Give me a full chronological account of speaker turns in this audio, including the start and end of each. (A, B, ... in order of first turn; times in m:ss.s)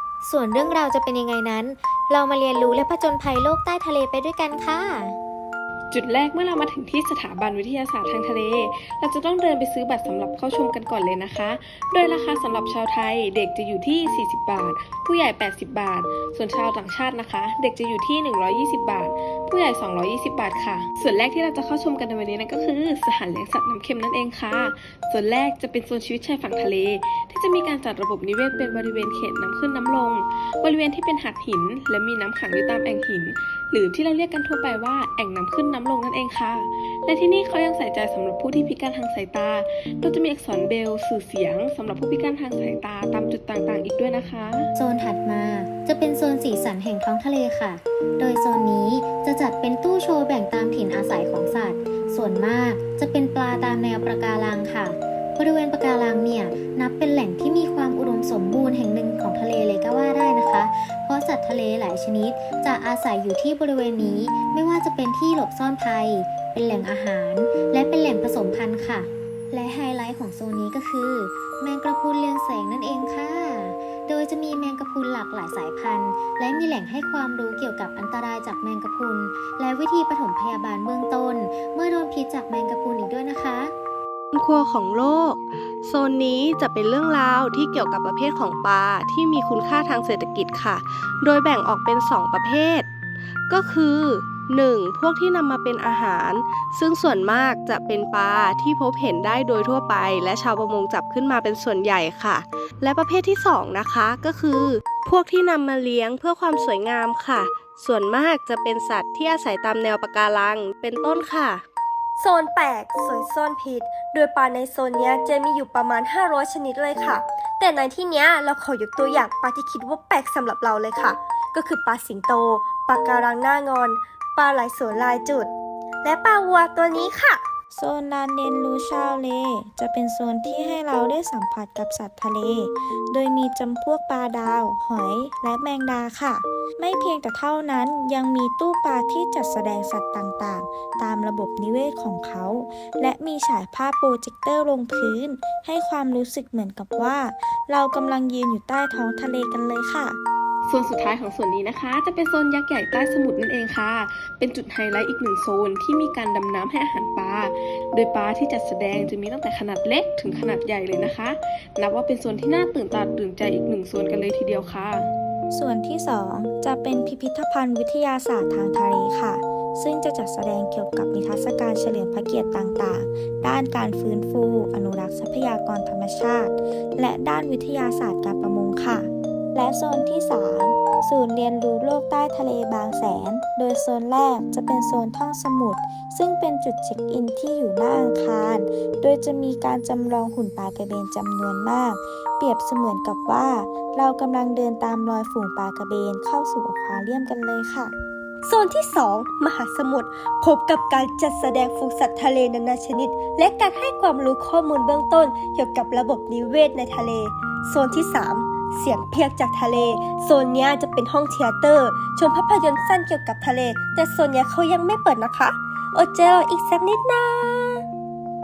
0:00.2-0:05.2 A
0:05.9-0:44.7 B
0:44.8-1:23.7 A
1:24.3-1:32.9 C
1:33.5-1:51.6 C
1:52.2-2:05.5 D
2:06.0-2:07.4 D
2:07.7-2:30.2 E
2:30.6-2:45.1 B
2:45.5-3:17.9 E
3:18.4-3:37.8 D